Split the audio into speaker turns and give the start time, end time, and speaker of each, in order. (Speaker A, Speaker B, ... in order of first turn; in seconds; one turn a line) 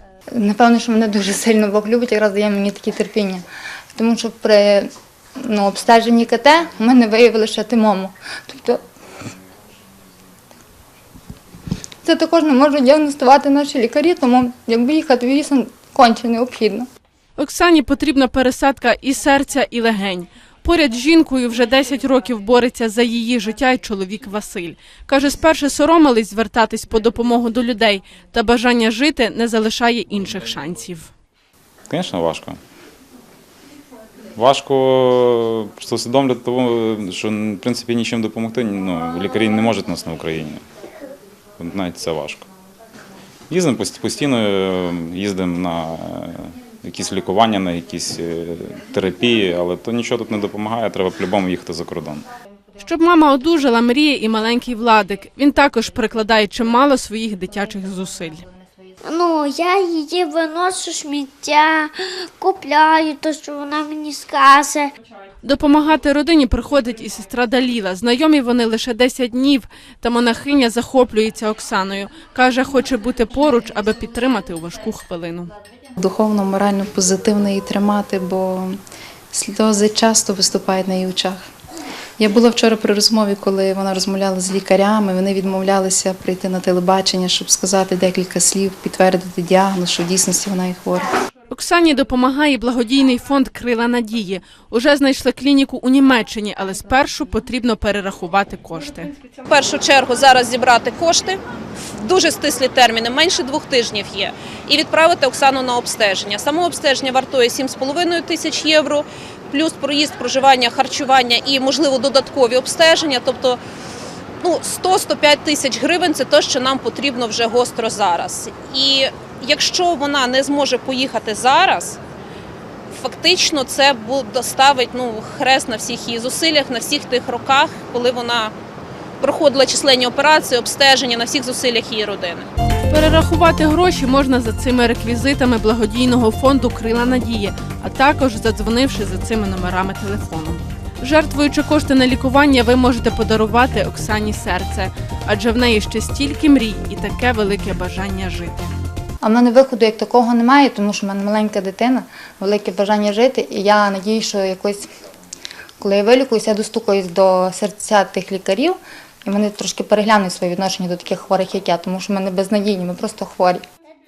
Speaker A: 0.3-3.4
Speaker A: 4.0-8.8
Speaker A: 12.0-16.9
Speaker B: 17.4-31.1
Speaker C: 31.9-32.6
Speaker C: 34.4-40.6
Speaker C: 41.6-42.5
Speaker C: 43.5-52.2
Speaker B: 52.8-58.4
Speaker D: 59.0-64.9
Speaker B: 65.4-75.5
Speaker E: 76.0-78.8
Speaker E: 79.3-81.5
Speaker E: 82.2-91.1
Speaker B: 91.5-99.1
Speaker F: 99.5-101.4
Speaker F: 102.0-113.6
Speaker F: 114.4-122.0
Speaker F: 122.9-128.5
Speaker F: 129.2-132.5
Speaker B: 132.9-148.7
Speaker A: 149.2-154.9
Speaker A: 155.8-163.6